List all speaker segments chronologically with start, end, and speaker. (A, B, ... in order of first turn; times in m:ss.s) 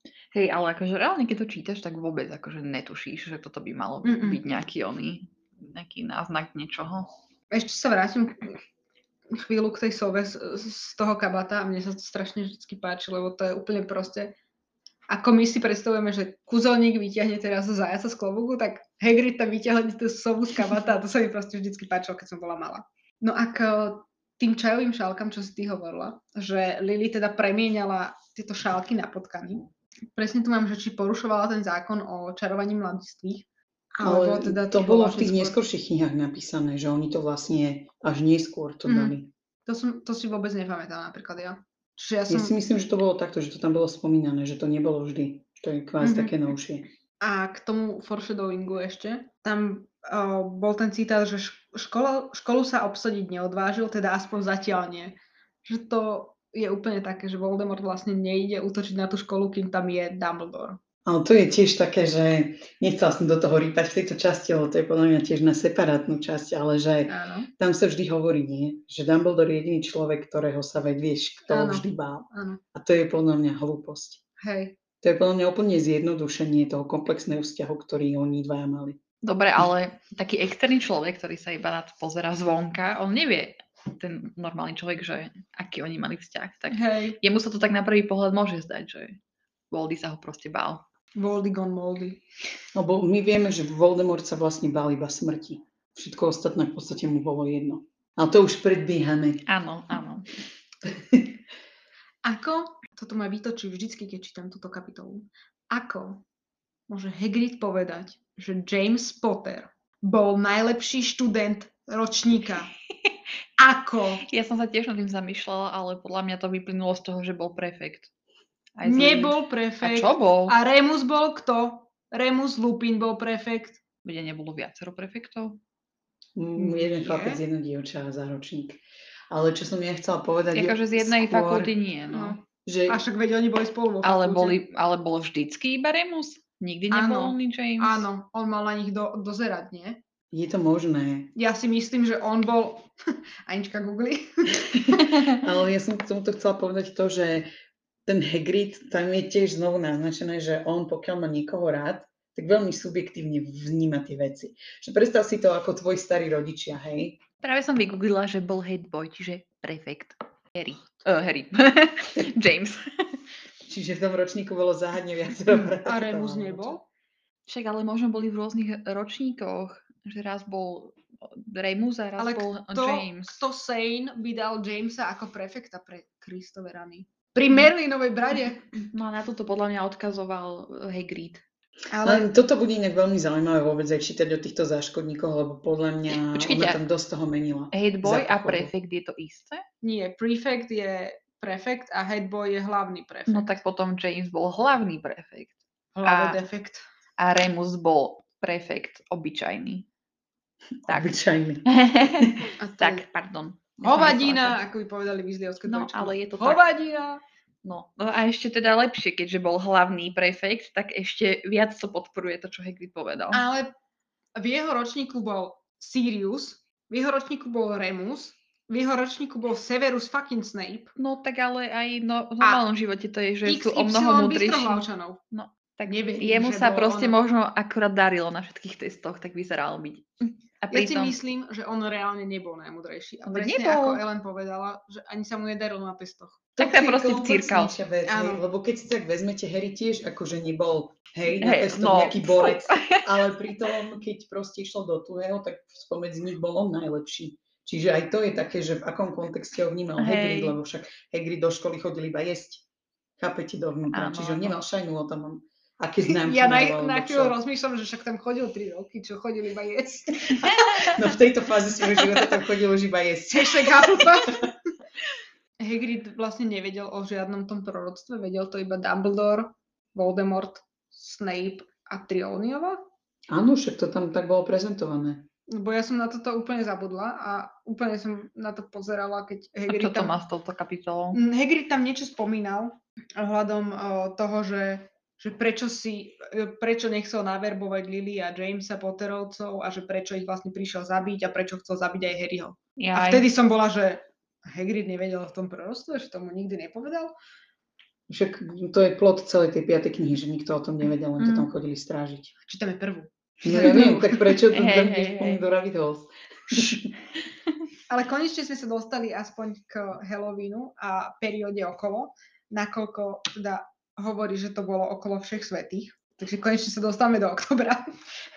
0:00.3-0:07.1 A
0:04.0-0:04.4 B
0:07.5-0:08.6 B
0:09.3-0:14.3 B
0:15.1-0:35.6 B
0:34.0-0:39.3 C
0:38.8-0:39.1 B
0:39.6-0:42.6 B
0:42.3-0:46.8 C
0:46.0-0:46.3 B
0:47.2-1:00.8 B
1:01.0-1:14.2 C
1:07.1-1:07.5 B
1:11.5-1:12.6 B
1:14.4-1:14.8 B
1:15.0-1:19.0 C
1:19.2-1:29.2 A
1:26.7-1:27.2 B
1:29.7-1:30.8 A
1:31.2-1:32.2 B
1:32.7-1:39.5 C
1:39.5-1:40.3 A
1:40.8-1:41.3 C
1:42.2-1:46.2 B
1:46.9-1:52.7 B
1:53.6-1:54.2 B
1:54.2-1:58.1 A
1:58.8-2:00.5 A
1:58.8-2:03.8 B
2:04.0-2:05.6 A
2:06.4-2:11.7 C
2:06.6-2:07.4 B
2:10.5-2:12.4 A
2:12.1-2:14.6 B
2:12.6-2:13.0 C
2:14.0-2:18.1 A
2:16.9-2:20.0 B
2:20.3-2:21.3 C
2:21.4-2:22.9 B
2:23.5-2:25.1 B
2:25.2-2:27.5 C
2:28.0-2:37.2 C
2:37.4-2:43.1 A
2:43.6-2:46.8 C
2:45.8-2:46.8 B
2:47.5-2:53.4 A
2:52.2-2:58.6 B
2:58.8-3:01.4 A
3:01.9-3:02.3 B
3:02.0-3:08.7 C
3:06.1-3:06.8 A
3:07.7-3:09.6 A
3:09.8-3:13.6 B
3:13.3-3:16.4 A
3:15.9-3:16.8 B
3:17.2-3:19.9 A
3:20.8-3:22.4 C
3:20.9-3:24.6 A
3:22.6-3:23.0 B
3:23.8-3:27.2 B
3:25.7-3:26.6 A
3:27.6-3:33.4 A
3:33.3-3:33.7 B
3:34.4-3:40.9 B
3:41.0-3:51.2 A
3:43.4-3:45.2 B
3:45.9-3:47.2 B
3:50.7-3:56.4 B
3:53.2-3:54.0 A
3:56.6-4:12.6 C
3:56.6-3:57.7 A
3:58.0-3:58.4 B
4:01.4-4:03.6 A
4:10.0-4:10.6 A
4:13.2-4:17.4 C
4:13.9-4:14.6 A
4:16.1-4:20.9 B
4:20.4-4:24.4 C
4:23.3-4:24.5 B
4:25.6-4:32.8 B
4:33.3-4:35.3 C
4:35.5-4:40.1 B
4:39.7-4:41.2 A
4:41.1-4:57.1 B
4:52.8-4:53.2 A
4:58.1-5:02.3 C
5:01.2-5:01.5 A
5:02.4-5:04.3 B
5:03.4-5:06.9 C
5:03.5-5:05.4 A
5:07.9-5:17.9 B